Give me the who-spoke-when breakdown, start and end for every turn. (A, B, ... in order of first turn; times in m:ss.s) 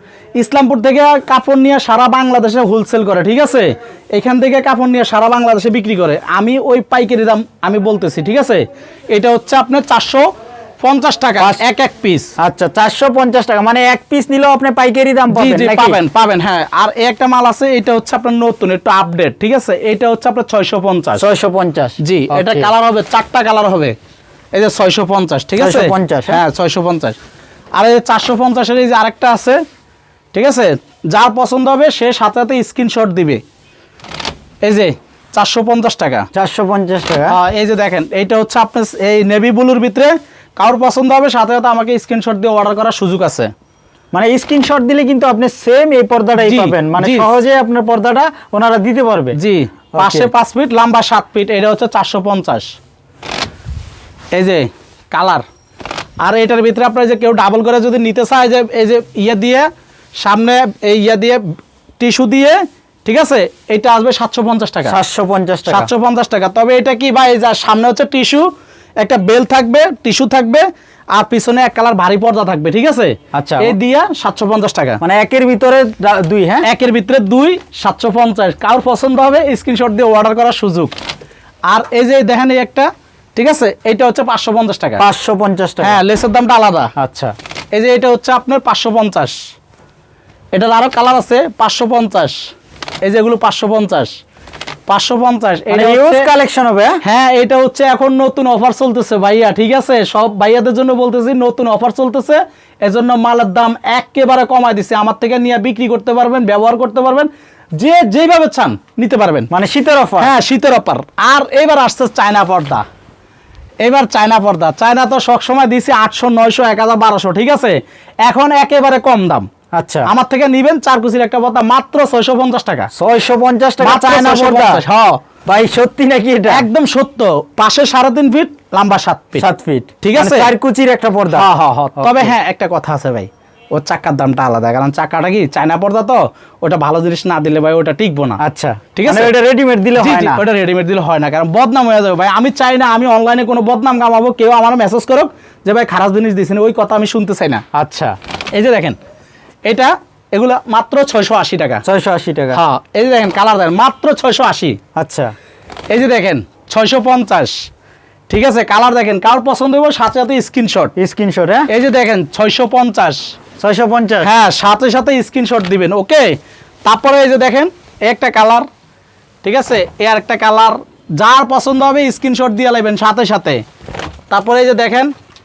0:00.4-0:10.2 A
0:10.8-0:12.3 A
0:12.4-0:16.0 B
0:15.3-0:21.2 A
0:21.2-0:22.7 B
0:22.0-0:23.9 A
0:24.5-0:27.2 A
0:25.6-0:26.4 B
0:27.7-0:29.6 A
0:30.3-0:33.4 A
0:34.6-0:36.2 A
0:36.3-0:37.4 B
0:37.3-0:43.5 A
0:44.1-0:49.4 B
0:46.4-0:47.3 A
0:49.4-0:52.7 A
0:49.9-0:50.3 B
0:54.3-0:55.4 A
0:56.2-0:59.7 A
1:00.2-1:05.0 A
1:04.8-1:05.9 B
1:05.7-1:08.5 A
1:09.0-1:15.0 A
1:13.3-1:13.8 B
1:15.0-1:16.7 B
1:16.6-1:20.9 A
1:21.7-1:25.0 A
1:25.0-1:26.0 B
1:25.8-1:26.9 A
1:27.0-1:27.3 B
1:27.7-1:29.4 A
1:30.5-1:32.4 A
1:33.0-1:34.1 A
1:34.9-1:36.3 A
1:35.7-1:37.0 B
1:37.0-1:49.5 A
1:49.5-1:50.3 B
1:50.2-1:52.8 A
1:53.8-1:59.5 A
1:59.7-2:00.1 B
2:00.0-2:02.9 A
2:02.9-2:04.8 B
2:03.8-2:05.2 A
2:05.4-2:06.7 B
2:06.5-2:09.4 A
2:09.4-2:12.3 B
2:10.0-2:10.5 A
2:11.3-2:18.4 A
2:18.4-2:20.4 B
2:18.9-2:19.3 A
2:20.0-2:27.6 A
2:27.7-2:28.2 B
2:28.5-2:29.0 A
2:29.7-2:31.8 A
2:31.8-2:32.6 B
2:32.5-2:34.8 A
2:35.0-2:35.3 B
2:35.9-2:37.7 A
2:38.3-2:40.9 A
2:41.0-2:41.7 B
2:41.7-2:43.2 A
2:43.6-2:44.3 B
2:44.2-2:48.6 A
2:49.4-2:53.6 A
2:54.3-2:55.1 A